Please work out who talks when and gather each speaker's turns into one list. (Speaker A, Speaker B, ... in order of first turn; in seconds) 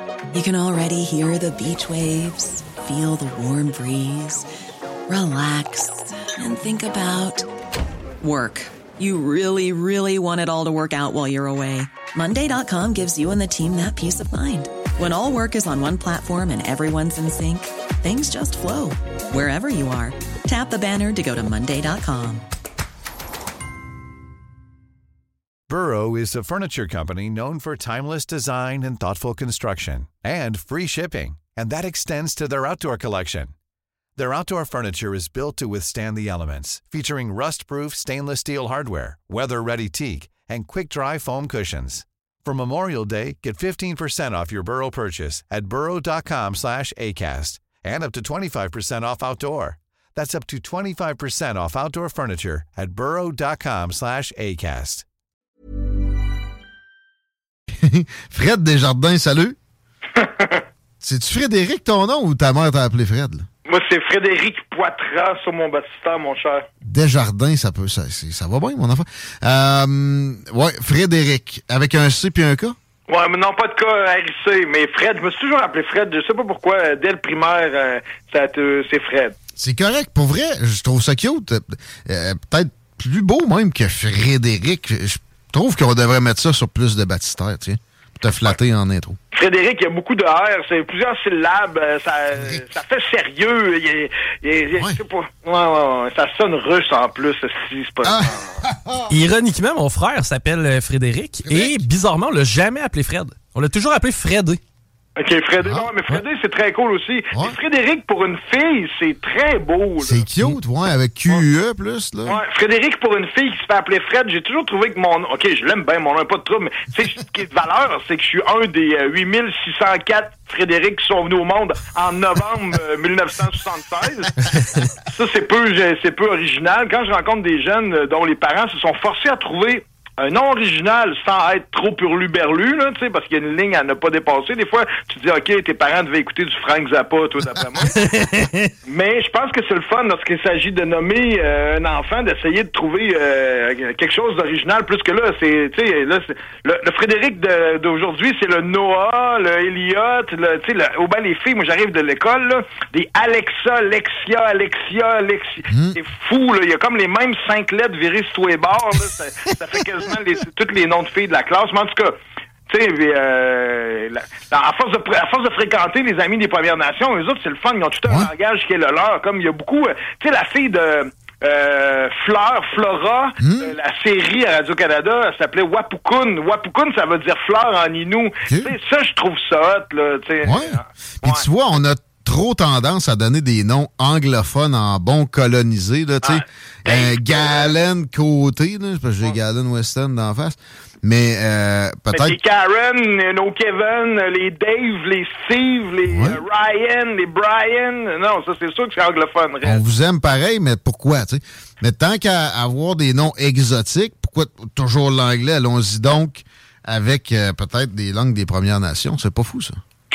Speaker A: 0.3-4.5, 5.1-7.5, 8.2-22.4
Speaker B: 25.7-33.5, 34.1-55.0
Speaker C: 57.7-59.6, 61.0-63.5, 66.8-72.8, 79.6-89.2, 92.3-92.6, 98.0-99.1, 101.4-101.8, 105.6-106.2, 110.0-112.4, 155.7-155.9, 173.4-173.7, 178.4-178.7, 180.4-192.4, 196.1-196.4, 199.6-209.8
Speaker D: 60.2-60.6, 63.7-66.7, 73.1-79.3, 89.3-98.6, 105.2-110.2, 112.3-124.4, 125.0-138.0, 138.8-162.2, 162.7-181.4, 186.2-187.7, 192.1-199.8
Speaker E: 99.1-104.6, 137.9-138.7